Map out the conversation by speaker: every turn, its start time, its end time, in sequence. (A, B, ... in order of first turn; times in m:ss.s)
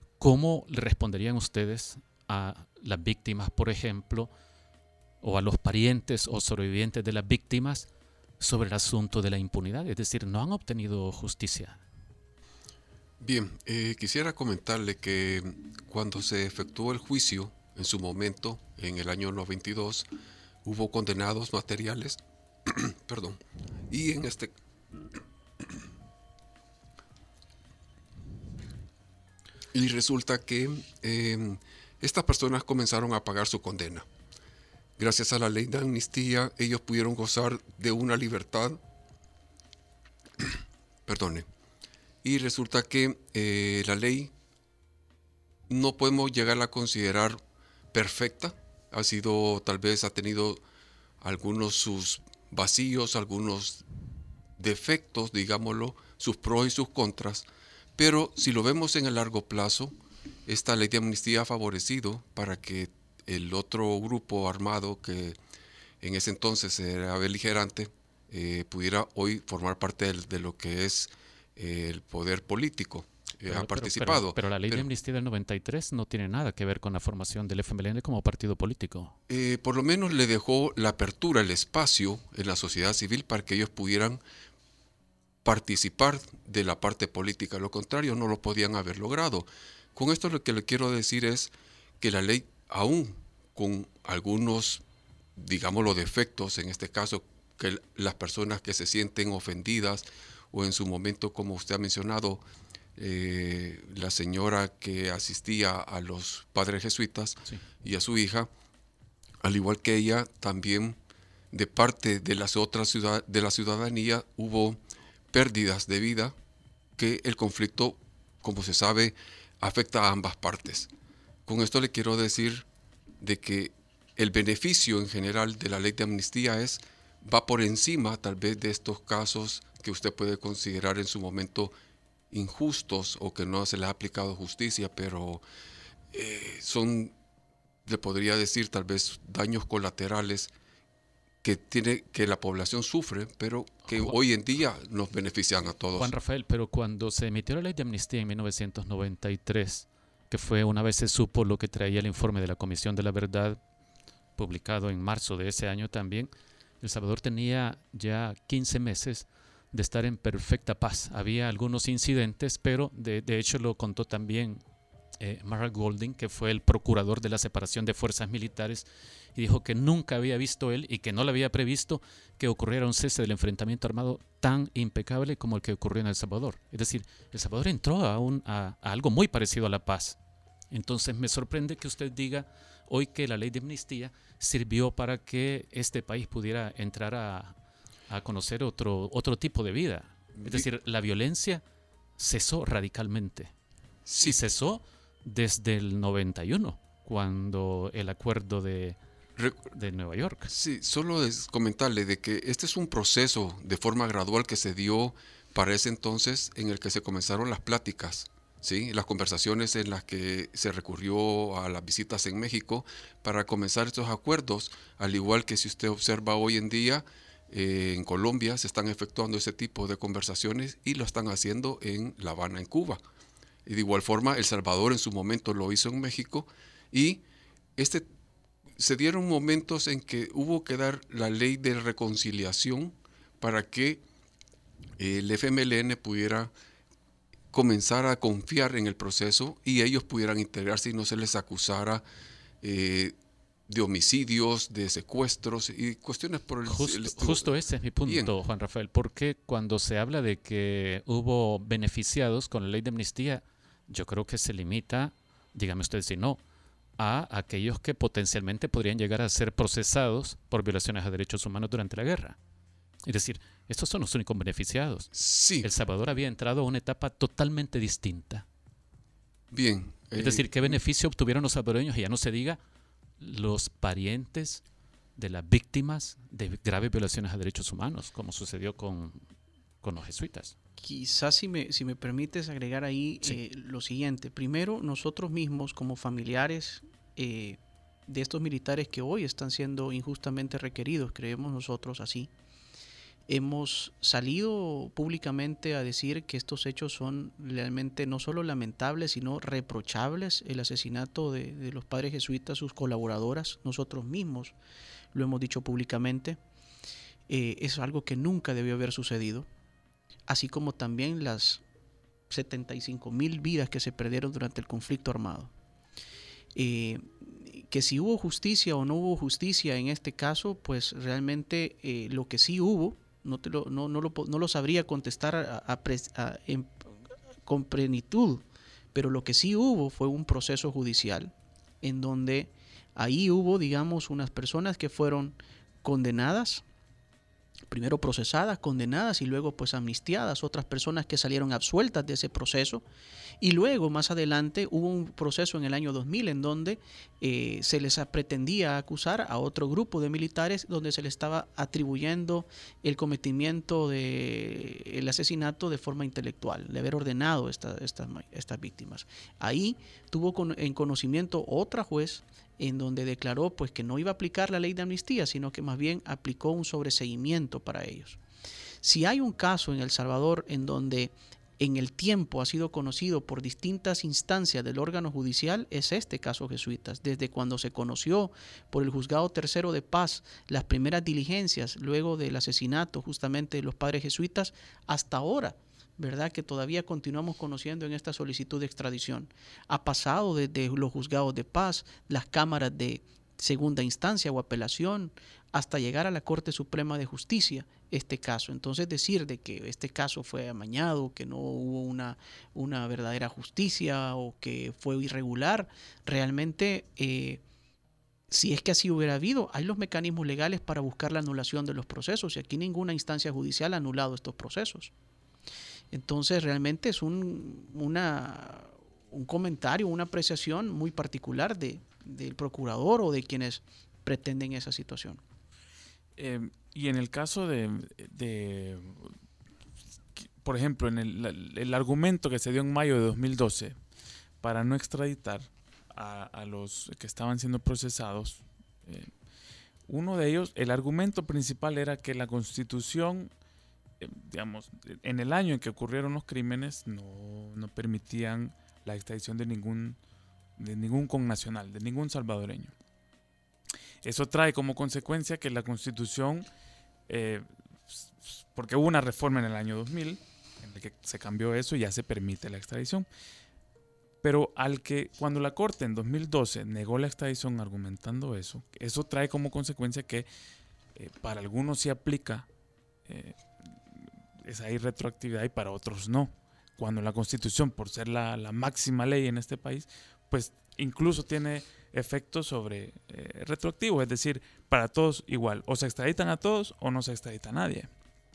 0:00.2-0:04.3 A
0:05.2-0:07.9 A
0:08.4-0:11.8 A
0:13.2-0:20.1 B
0:20.6-0:24.5 B
0:29.7-0:34.0 B
0:35.0-0:38.8 B
0:41.0-0:41.5 B
0:42.2-0:44.3 B
0:45.7-0:47.4 B
0:47.9-0:50.6 B
0:51.2-0:53.8 B
0:54.6-0:59.9 B
1:00.4-1:05.4 B
1:06.0-1:14.9 B
1:13.5-1:19.2 A
1:19.3-1:24.2 B
1:25.4-1:34.8 B
1:35.4-1:42.4 B
1:43.0-1:48.5 B
1:49.4-1:51.0 B
1:51.5-1:54.8 B
1:55.3-1:56.3 B
1:57.0-2:00.9 B
2:01.4-2:02.7 B
2:03.2-2:11.7 B
2:12.3-2:15.4 B
2:16.1-2:17.1 B
2:17.8-2:20.5 B
2:21.4-2:26.1 B
2:23.9-2:24.2 A
2:25.9-2:33.6 A
2:34.4-2:44.6 A
2:45.2-3:00.2 A
3:00.7-3:07.5 A
3:08.1-3:11.6 A
3:10.4-3:10.7 B
3:12.2-3:13.5 A
3:14.0-3:14.4 B
3:14.2-3:19.0 A
3:19.4-3:19.7 B
3:19.7-3:20.5 A
3:20.5-3:43.0 B
3:43.6-3:47.2 B
3:47.8-3:48.1 B
3:48.8-3:54.0 B
3:55.0-3:56.5 B
3:57.5-4:02.0 B
4:02.6-4:03.1 B
4:03.7-4:07.5 B
4:06.6-4:16.4 A
4:08.0-4:08.3 B
4:17.0-4:22.4 A
4:23.0-4:28.4 A
4:25.1-4:25.7 B
4:29.5-4:30.8 B
4:30.1-4:32.6 A
4:33.2-4:34.6 A
4:35.2-4:39.2 A
4:39.8-4:40.6 A
4:40.8-4:52.3 C
4:53.3-5:04.6 C
5:05.1-5:06.4 C
5:07.3-5:09.5 C
5:10.3-5:11.6 C
5:12.3-5:15.5 C
5:16.5-5:26.9 C
5:27.4-5:36.6 C
5:37.7-5:42.8 C
5:43.4-6:08.2 C
6:08.8-6:47.4 C
6:48.3-6:54.9 C
6:55.9-7:05.2 C
7:06.2-7:09.0 D
7:10.4-7:13.8 D
7:14.4-7:19.1 D
7:19.9-7:23.3 D
7:24.0-7:30.0 D
7:30.6-7:32.7 D
7:34.0-7:36.5 D
7:37.1-7:43.1 D
7:44.2-7:50.3 D
7:51.0-7:52.4 D
7:53.1-7:53.4 D
7:54.4-8:07.9 D